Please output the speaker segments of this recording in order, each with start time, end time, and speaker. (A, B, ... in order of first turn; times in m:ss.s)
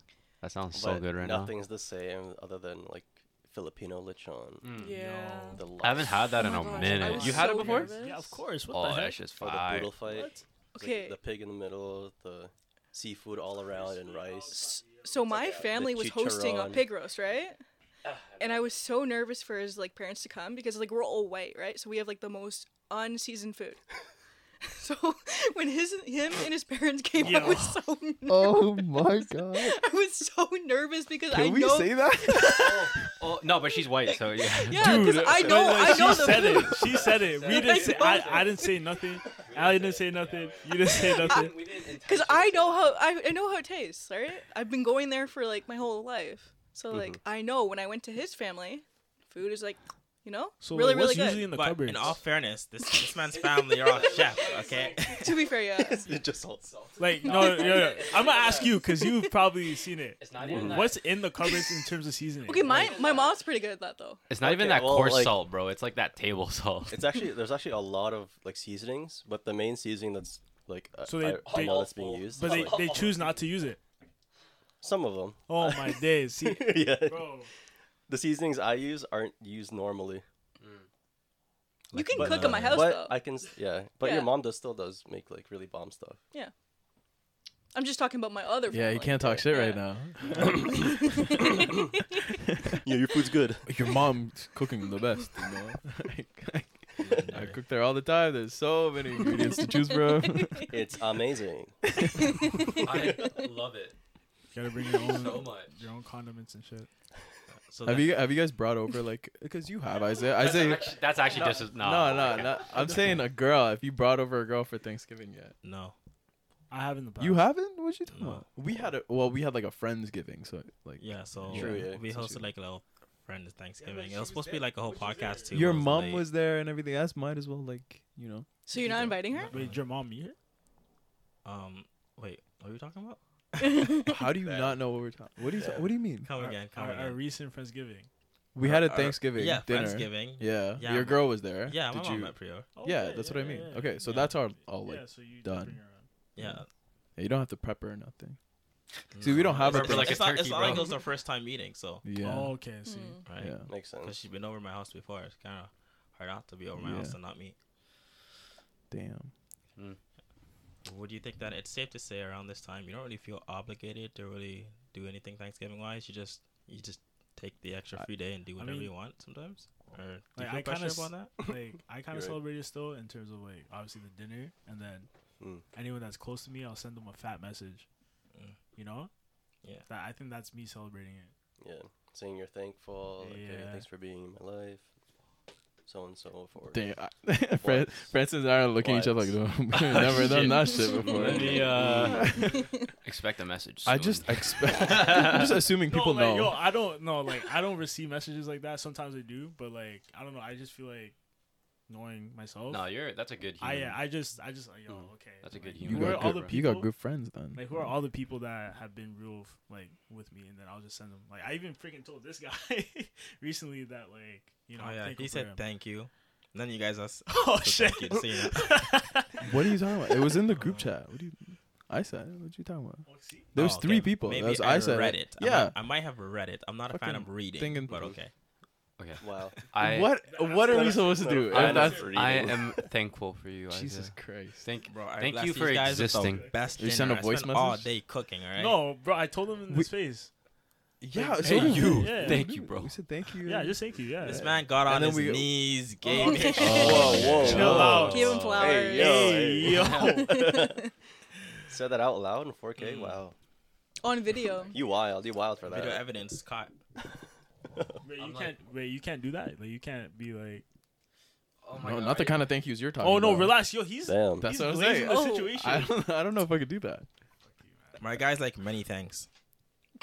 0:00.4-0:01.5 A
0:00.7-0:04.7 B
0:04.6-0:05.0 A
0:04.7-0:05.6 C
0:05.0-0:05.6 D
0:05.0-0:05.4 E
0:05.6-0:06.9 B
0:05.8-0:08.0 A
0:06.3-0:08.4 C
0:06.7-0:09.3 D
0:08.7-0:10.0 A
0:09.4-0:14.8 B
0:10.0-0:10.4 D
0:10.7-0:11.2 C
0:13.6-0:15.6 D
0:14.5-0:17.6 C
0:15.3-0:15.6 A
0:15.6-0:16.9 B
0:18.0-0:18.7 A
0:18.4-0:23.8 C
0:24.6-0:32.7 C
0:27.2-0:27.7 D
0:27.4-0:27.7 F
0:28.2-0:29.8 F
0:31.3-0:32.9 F
0:32.4-0:35.4 A
0:34.6-0:38.8 C
0:34.7-0:36.5 F
0:35.4-0:41.6 D
0:36.4-0:38.7 A
0:39.3-0:43.0 A
0:41.2-0:51.5 C
0:46.9-0:47.2 B
0:50.6-0:52.2 D
0:51.5-0:55.3 E
0:53.6-0:55.3 A
0:54.5-0:55.0 D
0:55.0-0:56.1 C
0:55.7-0:57.0 B
0:57.0-1:03.0 D
0:57.2-0:58.8 A
0:57.3-0:57.8 C
0:58.9-0:59.3 C
1:00.2-1:01.0 A
1:00.4-1:00.9 B
1:01.4-1:01.7 C
1:02.4-1:04.2 C
1:02.6-1:03.4 A
1:04.3-1:07.0 A
1:04.4-1:05.4 B
1:06.9-1:13.0 B
1:11.0-1:13.8 D
1:11.4-1:13.4 A
1:14.8-1:17.4 B
1:15.5-1:17.5 D
1:18.1-1:20.2 B
1:20.6-1:20.9 A
1:21.9-1:22.9 E
1:21.9-1:23.2 C
1:22.1-1:26.2 B
1:24.0-1:24.3 C
1:27.7-1:29.7 C
1:28.7-1:31.1 F
1:29.2-1:29.4 B
1:30.3-1:30.9 B
1:30.5-1:31.8 C
1:31.4-1:31.7 B
1:32.8-1:33.7 B
1:33.6-1:40.7 F
1:37.0-1:37.6 E
1:39.2-1:40.7 C
1:40.7-1:41.8 B
1:42.0-1:42.3 F
1:42.3-1:42.7 C
1:42.6-1:43.3 B
1:42.8-1:44.0 A
1:44.5-1:46.9 D
1:45.0-1:45.7 A
1:47.7-1:48.2 E
1:47.8-1:55.5 F
1:50.4-1:52.7 A
1:55.6-1:55.9 E
1:56.7-1:57.5 D
1:57.2-2:02.5 F
1:58.1-1:58.4 E
2:01.0-2:06.3 E
2:01.5-2:02.0 B
2:03.8-2:06.0 D
2:05.5-2:09.0 F
2:08.7-2:09.5 C
2:09.3-2:09.8 E
2:09.5-2:10.4 D
2:11.4-2:13.9 E
2:13.6-2:14.2 C
2:14.0-2:16.3 F
2:14.4-2:14.8 B
2:15.5-2:15.9 B
2:16.2-2:17.2 E
2:16.3-2:18.1 D
2:18.5-2:25.8 F
2:18.6-2:22.7 E
2:22.7-2:26.1 D
2:24.0-2:24.4 E
2:26.4-2:26.7 E
2:27.2-2:28.4 F
2:29.1-2:32.0 E
2:29.2-2:30.3 F
2:29.5-2:30.9 A
2:32.0-2:32.6 F
2:32.2-2:33.2 D
2:32.8-2:33.2 C
2:33.2-2:37.5 E
2:33.4-2:33.7 F
2:33.7-2:34.2 B
2:36.8-2:37.2 F
2:38.9-2:39.3 F
2:40.8-2:51.3 E
2:48.6-2:48.9 D
2:50.3-2:55.1 D
2:52.1-2:52.4 B
2:55.4-2:55.6 B
2:55.7-2:57.8 D
2:58.3-2:58.6 E
2:58.8-2:59.1 D
2:59.9-3:01.3 D
3:01.6-3:04.8 B
3:03.2-3:03.9 D
3:05.8-3:06.8 B
3:06.7-3:12.7 F
3:07.6-3:08.2 B
3:08.8-3:09.4 B
3:09.7-3:12.4 A
3:10.5-3:11.2 C
3:11.1-3:12.2 B
3:12.2-3:12.9 C
3:13.0-3:15.7 A
3:13.8-3:16.6 F
3:15.8-3:21.1 D
3:21.9-3:22.9 D
3:22.7-3:24.0 A
3:23.6-3:26.9 D
3:25.4-3:26.5 A
3:25.8-3:27.9 F
3:27.5-3:35.6 D
3:34.8-3:38.8 E
3:37.3-3:40.4 D
3:39.4-3:45.8 F
3:40.6-3:40.8 E
3:43.0-3:43.5 D
3:43.5-3:48.3 E
3:46.9-3:48.2 F
3:47.9-3:48.2 B
3:49.0-3:50.2 A
3:49.2-3:49.6 B
3:49.8-3:52.5 F
3:50.2-3:52.2 D
3:50.6-3:52.9 B
3:51.5-3:56.5 A
3:53.7-3:54.6 F
3:54.8-3:58.8 E
3:56.2-3:56.8 D
3:56.8-3:57.9 F
3:58.6-4:00.3 D
4:01.0-4:05.7 F
4:01.1-4:02.5 D
4:01.4-4:03.0 A
4:03.4-4:04.6 D
4:04.2-4:07.5 E
4:06.2-4:10.5 D
4:06.2-4:07.2 C
4:06.5-4:08.1 F
4:06.7-4:10.8 B
4:06.8-4:08.9 A
4:08.0-4:09.3 C
4:09.8-4:10.1 A
4:10.0-4:10.9 C
4:11.7-4:13.3 B
4:12.8-4:13.1 E
4:14.0-4:14.8 C
4:14.7-4:16.0 B
4:15.6-4:16.7 E
4:17.7-4:18.0 B
4:18.0-4:20.6 D
4:18.2-4:18.5 A
4:21.6-4:22.4 A
4:21.8-4:23.6 F
4:23.0-4:26.0 D
4:24.0-4:24.5 B
4:24.4-4:27.0 F
4:25.0-4:25.5 C
4:27.4-4:28.1 D
4:28.0-4:29.3 E